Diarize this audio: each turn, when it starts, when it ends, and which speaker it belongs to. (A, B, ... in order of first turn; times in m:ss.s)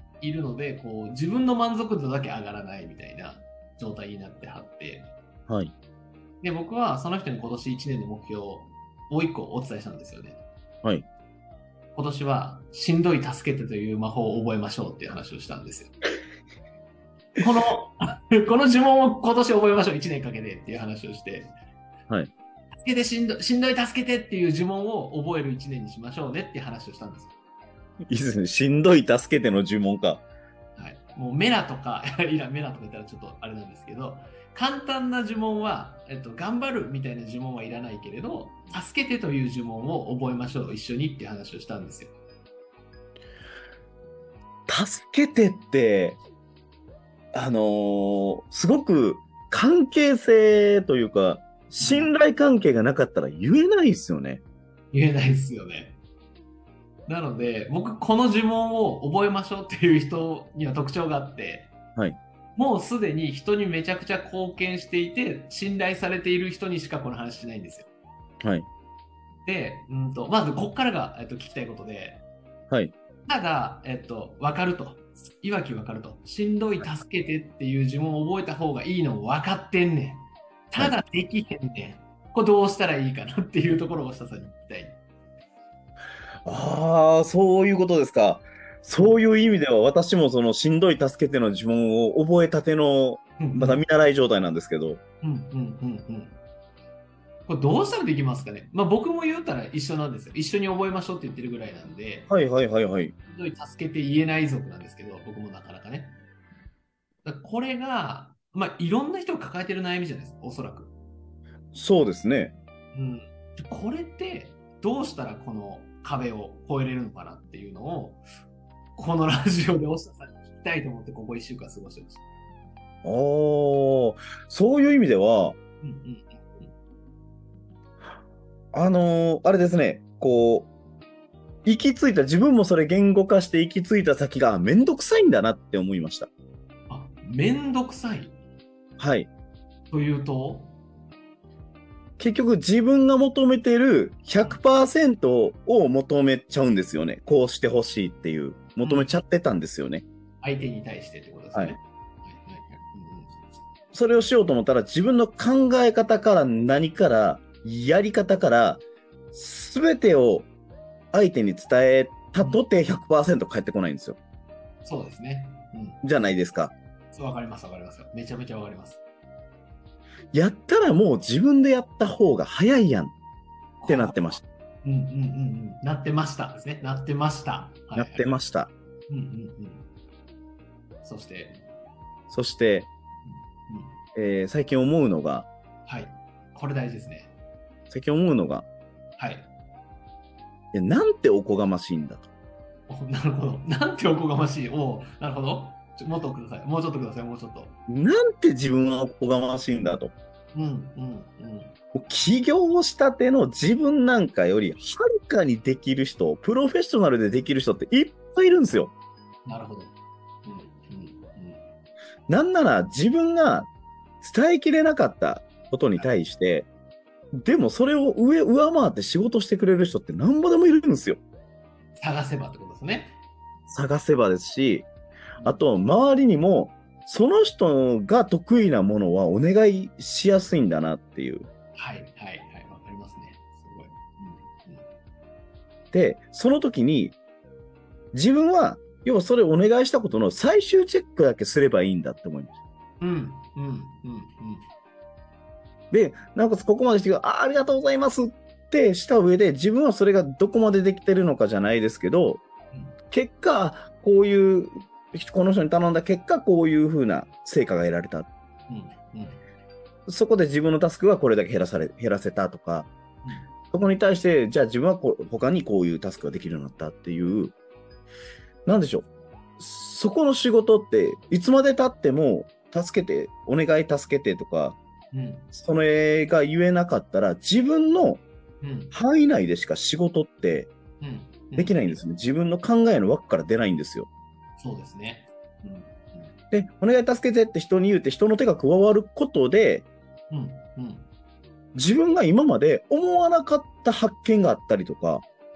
0:00.2-0:05.1 A
0:06.4-0:10.4 A
0:11.9-0:15.9 A
0:17.4-0:21.5 A
0:22.8-0:27.3 A
0:28.1-0:30.2 B
0:30.8-0:42.1 A
0:44.7-0:46.2 B
0:47.3-0:54.4 B
0:51.8-0:52.1 A
0:54.9-0:56.0 A
0:57.1-1:01.7 A
1:02.5-1:07.9 A
1:08.4-1:08.7 B
1:09.4-1:12.2 A
1:13.3-1:25.0 A
1:26.4-1:35.0 B
1:33.4-1:33.8 A
1:35.2-1:36.4 A
1:37.5-1:42.3 A
1:42.3-1:43.1 B
1:43.3-1:46.2 A
1:47.2-1:50.9 A
1:51.7-1:52.5 B
1:52.9-1:58.2 A
1:59.0-2:02.2 A
2:03.0-2:05.6 B
2:05.8-2:06.7 A
2:08.7-2:10.7 B
2:11.6-2:16.3 B
2:16.9-2:18.4 A
2:19.0-2:19.3 B
2:19.9-2:20.7 A
2:22.2-2:30.0 B
2:28.8-2:29.1 A
2:30.4-2:33.6 A
2:33.9-2:38.8 B
2:39.3-2:40.5 B
2:41.1-2:44.2 B
2:44.8-2:46.0 A
2:46.0-2:46.7 B
2:47.1-2:49.0 A
2:50.3-2:53.1 B
2:53.8-2:58.4 A
2:53.9-2:54.4 B
2:58.0-2:58.7 B
2:59.1-2:59.9 A
3:01.0-3:01.6 A
3:02.3-3:02.9 B
3:03.2-3:04.0 A
3:04.1-3:05.5 B
3:05.8-3:07.3 A
3:07.9-3:08.6 B
3:09.2-3:09.5 A
3:10.7-3:12.3 B
3:12.9-3:17.8 A
3:17.9-3:20.1 B
3:20.5-3:21.7 A
3:21.9-3:28.9 B
3:29.4-3:29.9 A
3:30.4-3:31.6 A
3:32.3-3:33.7 B
3:34.2-3:36.7 B
3:37.3-3:41.2 B
3:42.0-3:43.2 A
3:43.7-3:44.9 B
3:45.4-3:45.6 A
3:45.4-3:51.5 B
3:51.7-3:54.8 A
3:55.9-3:57.2 B
3:58.1-4:02.5 B
4:03.0-4:04.6 A
4:05.9-4:12.4 B
4:13.1-4:18.3 B
4:18.7-4:19.4 A
4:20.1-4:22.9 B
4:23.2-4:23.5 A
4:23.7-4:27.5 B
4:28.6-4:29.1 B
4:29.6-4:34.8 B
4:35.1-4:35.5 A
4:35.5-4:38.2 B
4:38.6-4:38.9 A
4:38.9-4:40.7 B
4:41.0-4:42.0 A
4:41.6-4:44.1 B
4:44.6-4:46.4 A
4:46.5-4:49.8 B
4:50.3-4:51.1 A
4:51.7-4:55.2 B